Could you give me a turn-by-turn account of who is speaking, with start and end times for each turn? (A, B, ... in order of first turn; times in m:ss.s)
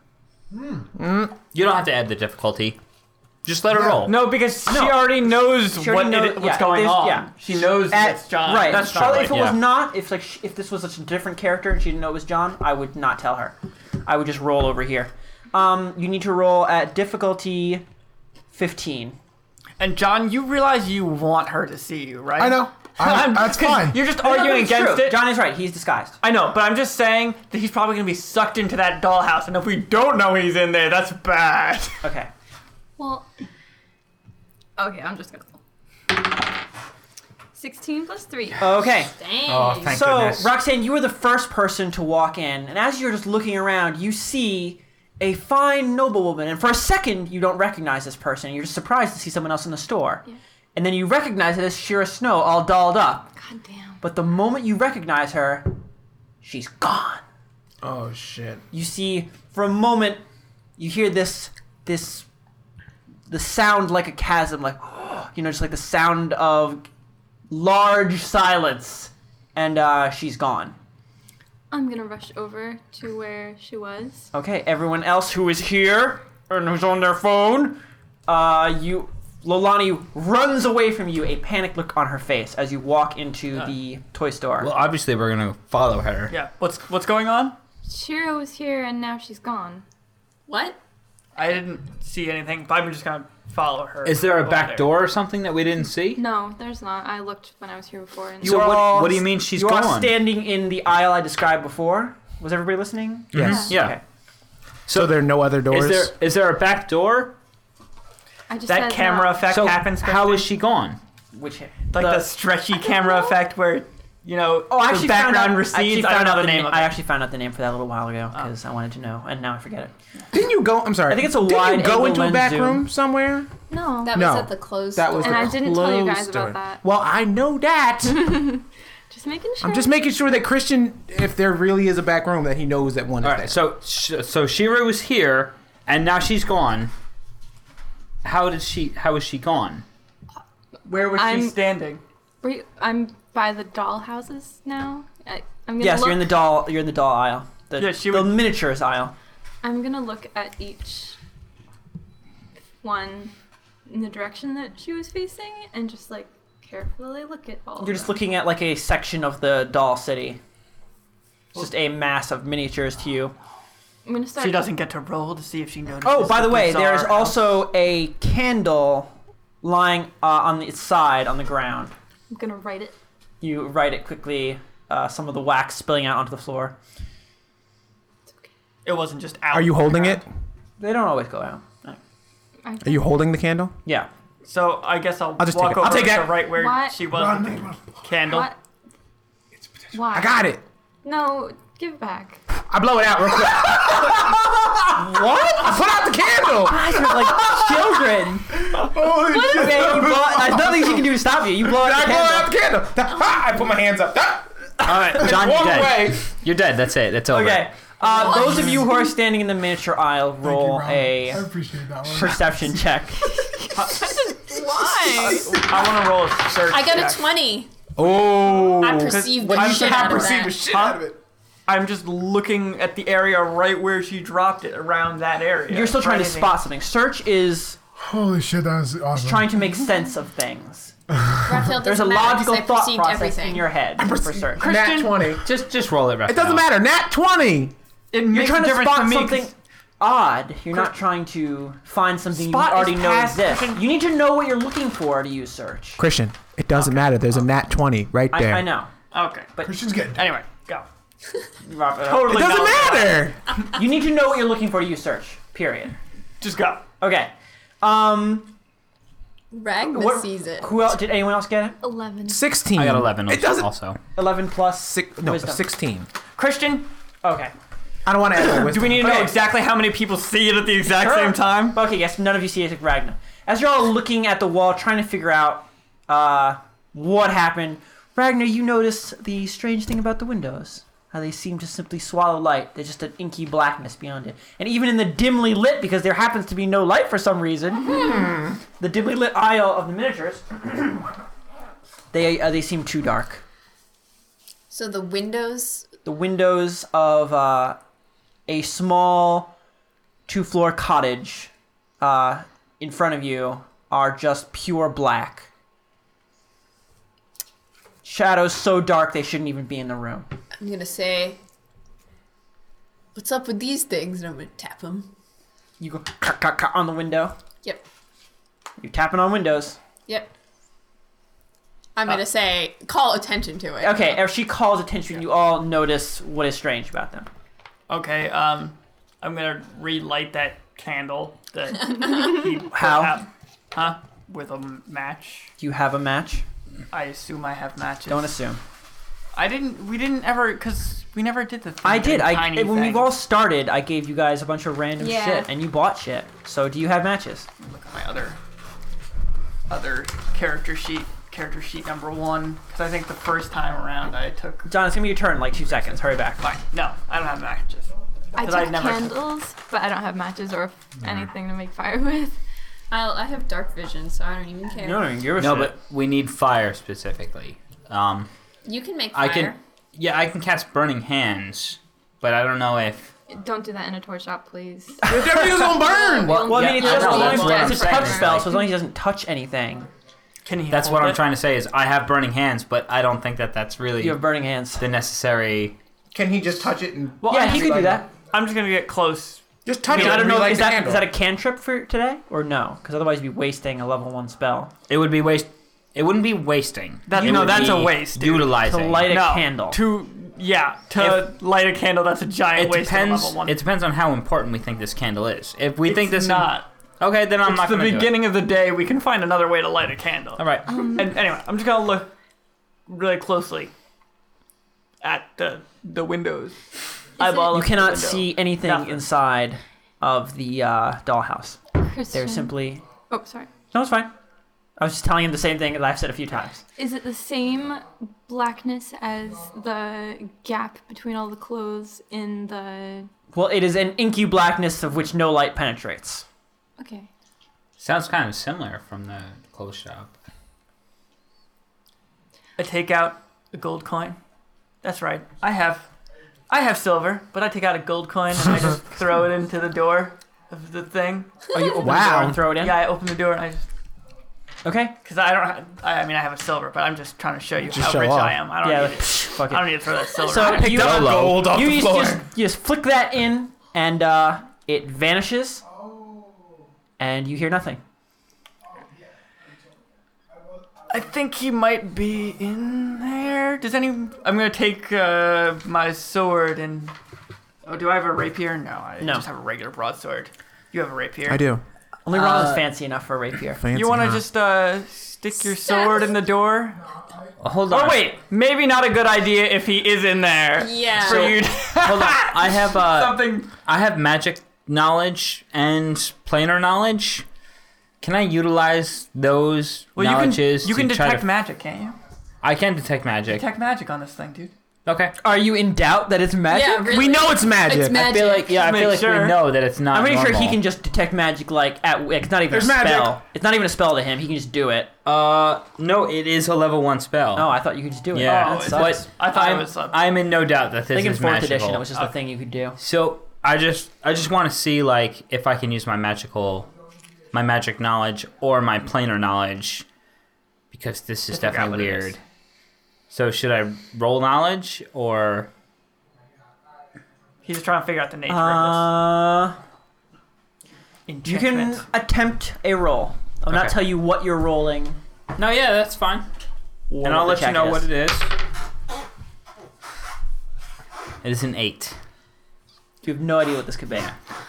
0:00.5-0:00.9 A
0:01.0-0:01.4 B
0:01.4-0:02.8 C
0:03.4-0:04.2 C
0:03.8-0:04.0 A
0:04.0-0:09.3 D
0:04.6-0:17.8 E
0:08.6-0:09.6 C
0:18.5-0:19.2 E
0:19.8-0:25.3 D
0:22.4-0:24.0 A
0:24.0-0:26.2 E
0:26.2-0:32.0 D
0:32.0-0:32.3 E
0:33.0-0:33.2 F
0:34.8-0:35.6 F
0:37.5-0:38.7 F
0:38.6-0:39.1 E
0:39.1-0:40.0 G
0:39.4-0:40.5 C
0:39.8-0:50.2 E
0:50.7-0:53.3 E
0:53.4-0:54.0 F
0:54.0-0:55.7 E
0:56.4-0:57.2 E
0:57.8-0:58.6 B
0:58.7-1:00.2 E
1:00.8-1:02.3 E
1:03.3-1:06.8 E
1:07.5-1:10.8 E
1:11.7-1:14.3 F
1:14.3-1:24.7 E
1:24.6-1:26.3 C
1:26.3-1:27.6 D
1:27.9-1:29.8 F
1:30.5-1:30.8 G
1:31.4-1:34.9 D
1:34.0-1:36.2 C
1:36.1-1:38.7 F
1:38.4-1:44.0 E
1:38.4-1:40.2 C
1:43.3-1:44.0 C
1:43.3-1:43.7 B
1:43.4-1:43.7 F
1:44.9-1:47.3 C
1:44.9-1:46.1 B
1:48.5-1:49.5 F
1:48.7-1:50.4 E
1:48.7-1:49.3 D
1:49.5-1:51.0 C
1:51.3-1:52.3 E
1:51.9-1:56.9 D
1:52.7-1:53.4 F
1:54.7-1:59.9 E
2:00.3-2:03.5 B
2:01.1-2:02.9 E
2:03.7-2:04.3 F
2:04.0-2:05.6 G
2:04.1-2:08.4 B
2:05.2-2:06.8 F
2:08.1-2:10.0 F
2:09.6-2:13.6 B
2:13.2-2:16.9 C
2:18.2-2:19.8 C
2:20.8-2:22.0 D
2:21.1-2:21.6 F
2:22.4-2:26.3 F
2:25.8-2:29.1 E
2:27.8-2:28.5 D
2:29.6-2:31.2 F
2:32.8-2:33.3 F
2:33.9-2:38.2 F
2:37.8-2:40.4 E
2:41.5-2:43.3 E
2:44.0-2:44.7 F
2:44.4-2:47.6 D
2:46.0-2:51.9 E
2:52.3-2:52.9 F
2:53.4-2:56.8 E
2:58.8-3:00.2 D
2:59.5-3:00.2 B
3:00.8-3:02.0 E
3:02.6-3:03.1 F
3:02.8-3:03.7 B
3:04.4-3:08.5 D
3:05.4-3:06.4 B
3:06.4-3:07.0 F
3:07.1-3:08.0 A
3:08.2-3:08.6 F
3:09.9-3:10.4 F
3:10.1-3:10.6 B
3:11.0-3:12.4 F
3:12.7-3:26.3 B
3:16.6-3:18.7 E
3:19.3-3:22.5 E
3:19.3-3:19.7 F
3:24.8-3:27.7 C
3:27.3-3:31.4 E
3:28.0-3:28.8 D
3:28.2-3:28.8 G
3:30.4-3:32.6 A
3:32.0-3:33.3 E
3:33.4-3:35.6 F
3:33.8-3:34.3 D
3:35.1-3:37.3 D
3:36.7-3:37.7 G
3:38.0-3:41.2 B
3:38.7-3:40.6 G
3:38.8-3:41.0 D
3:41.7-3:46.5 D
3:45.7-3:47.8 E
3:48.0-3:49.5 A
3:49.2-3:50.9 E
3:51.4-3:53.7 G
3:51.8-3:54.7 E
3:54.0-3:55.5 B
3:54.6-3:55.2 D
3:55.4-3:56.6 C
3:56.2-3:57.7 B
3:58.1-3:59.5 D
3:58.3-4:06.0 E
4:02.3-4:03.8 D
4:06.0-4:08.7 B
4:06.7-4:07.2 D
4:08.3-4:08.9 E
4:09.1-4:09.5 D
4:09.6-4:10.2 A
4:10.1-4:10.8 D
4:11.6-4:13.1 E
4:12.0-4:13.3 D
4:12.2-4:13.4 B
4:13.7-4:16.0 E
4:16.4-4:16.8 D
4:17.0-4:18.5 E
4:19.5-4:20.8 G
4:19.9-4:21.8 E
4:21.8-4:22.5 F
4:22.3-4:23.7 B
4:22.8-4:24.0 C
4:24.2-4:25.7 E
4:24.9-4:26.1 B
4:26.4-4:27.5 E
4:26.4-4:26.8 D
4:28.0-4:29.2 B
4:28.4-4:29.3 E
4:28.7-4:31.8 D
4:30.9-4:48.2 E
4:48.8-4:51.1 E
4:52.1-4:53.4 E
4:54.7-4:55.9 G
4:56.0-4:57.8 E
4:58.5-4:59.5 E
5:00.3-5:05.5 E
5:08.0-5:10.3 E
5:10.6-5:11.4 G
5:13.1-5:15.1 G
5:15.8-5:17.3 E
5:18.8-5:19.8 E
5:22.0-5:24.2 G
5:23.8-5:27.3 E
5:27.9-5:35.5 D
5:32.6-5:33.2 E
5:35.6-5:36.4 E
5:36.9-5:38.4 D
5:38.1-5:38.6 E
5:39.3-5:43.1 D
5:41.8-5:47.5 E
5:45.0-5:45.5 G
5:47.6-5:48.4 D
5:49.7-5:54.7 D
5:54.6-5:56.6 E
5:56.4-5:59.2 D
5:58.4-6:02.4 F
6:02.9-6:05.0 G
6:04.8-6:05.7 E
6:05.4-6:08.3 C
6:08.6-6:09.6 G
6:09.1-6:13.1 C
6:13.3-6:18.0 F
6:15.0-6:15.8 E
6:15.0-6:17.5 B
6:16.3-6:19.9 E
6:16.6-6:18.6 C
6:16.8-6:18.3 G
6:20.4-6:21.2 D
6:20.7-6:24.2 C
6:24.0-6:24.8 E
6:24.8-6:25.7 C
6:26.1-6:28.0 B
6:27.2-6:30.7 D
6:27.2-6:28.1 E
6:29.6-6:31.1 B
6:29.9-6:34.7 E
6:34.9-6:39.1 C
6:37.1-6:38.6 D
6:37.2-6:37.6 E
6:38.6-6:39.8 E
6:39.1-6:43.6 D
6:41.0-6:41.2 C
6:42.5-6:48.2 C
6:45.8-6:46.7 D
6:47.4-6:52.1 D
6:50.4-6:50.9 C
6:50.6-6:51.2 F
6:52.9-6:53.7 D
6:55.0-6:59.0 D
6:57.2-6:57.6 F
6:57.5-7:01.6 E
7:01.8-7:03.5 F
7:02.1-7:02.8 E
7:03.7-7:04.1 E
7:04.8-7:06.6 E
7:06.8-7:13.1 F
7:13.3-7:16.2 E
7:16.8-7:17.1 F
7:17.8-7:20.1 C
7:22.6-7:24.2 D
7:24.8-7:25.9 D
7:26.5-7:31.3 D
7:31.5-7:32.8 E
7:31.8-7:32.4 B
7:32.6-7:33.6 D
7:34.6-7:34.9 E
7:35.0-7:41.0 D
7:37.7-7:38.4 B
7:38.6-7:45.6 E
7:40.4-7:42.3 B
7:40.6-7:41.5 C
7:47.0-7:47.8 E
7:50.9-7:56.9 D
7:57.6-8:01.6 D
8:01.3-8:01.6 B
8:02.0-8:03.6 E
8:02.1-8:02.6 C
8:03.6-8:04.2 B
8:03.7-8:06.8 D
8:05.6-8:06.1 G
8:07.4-8:08.1 C
8:07.7-8:13.5 D
8:10.6-8:11.4 G
8:11.7-8:17.2 C
8:18.0-8:21.2 C
8:19.9-8:22.0 D
8:22.4-8:23.4 C
8:23.3-8:24.5 D
8:24.8-8:25.1 C
8:25.2-8:26.9 E
8:26.5-8:28.7 G
8:26.9-8:28.2 B
8:27.9-8:30.6 C
8:28.5-8:29.4 D
8:29.9-8:34.9 E
8:32.5-8:33.2 B
8:35.0-8:37.5 C
8:37.4-8:39.1 E
8:38.1-8:42.1 C
8:38.2-8:40.0 D
8:40.9-8:42.8 E
8:42.8-8:46.7 C
8:47.3-8:49.8 C
8:50.7-8:52.2 C
8:51.3-8:52.1 D
8:53.1-8:55.5 C
8:57.4-8:58.9 D
8:58.3-8:59.6 E
9:01.1-9:01.8 D
9:01.2-9:05.0 E
9:03.5-9:03.7 C
9:05.4-9:06.3 C
9:06.9-9:07.3 D
9:07.0-9:08.3 C
9:07.1-9:07.9 E
9:11.2-9:12.0 C
9:13.0-9:14.1 E